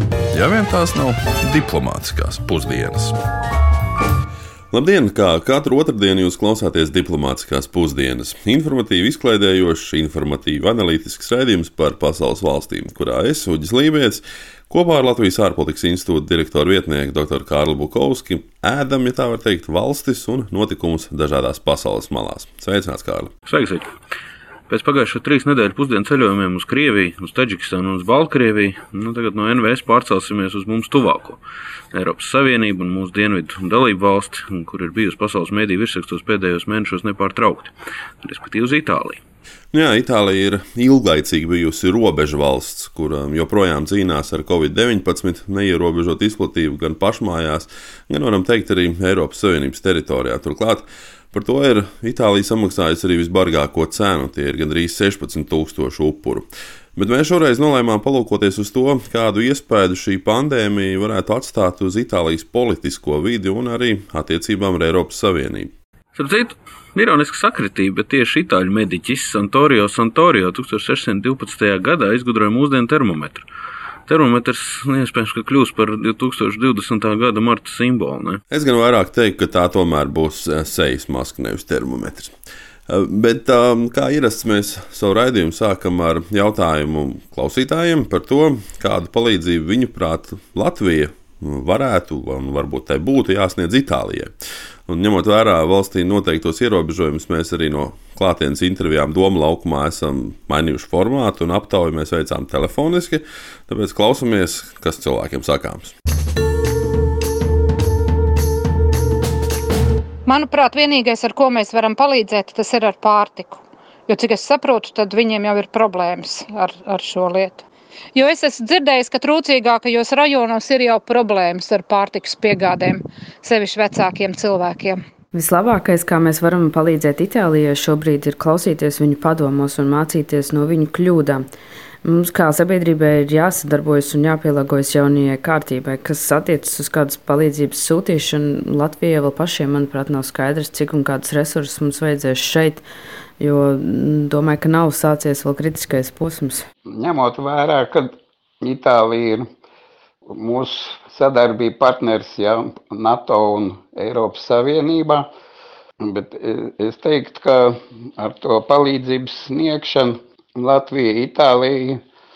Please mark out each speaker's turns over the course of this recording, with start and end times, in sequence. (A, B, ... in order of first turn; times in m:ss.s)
0:00.4-0:03.1 A
0:04.7-0:23.3 B
0:23.5-0:23.8 C
0:24.7-0:31.4 C
0:31.9-0:37.7 C
0:38.2-0:39.2 C
0:39.7-1:05.7 B
1:06.1-1:13.4 C
1:14.1-1:18.4 C
1:18.5-1:22.3 B
1:22.9-1:34.3 B
1:34.9-1:45.9 B
1:50.3-1:53.5 D
1:54.1-1:57.6 D
1:58.2-2:05.0 D
2:05.3-2:11.5 E
2:12.0-2:22.8 E
2:23.4-2:26.7 E
2:26.9-2:29.4 F
2:30.4-2:35.3 F
2:36.0-2:42.0 F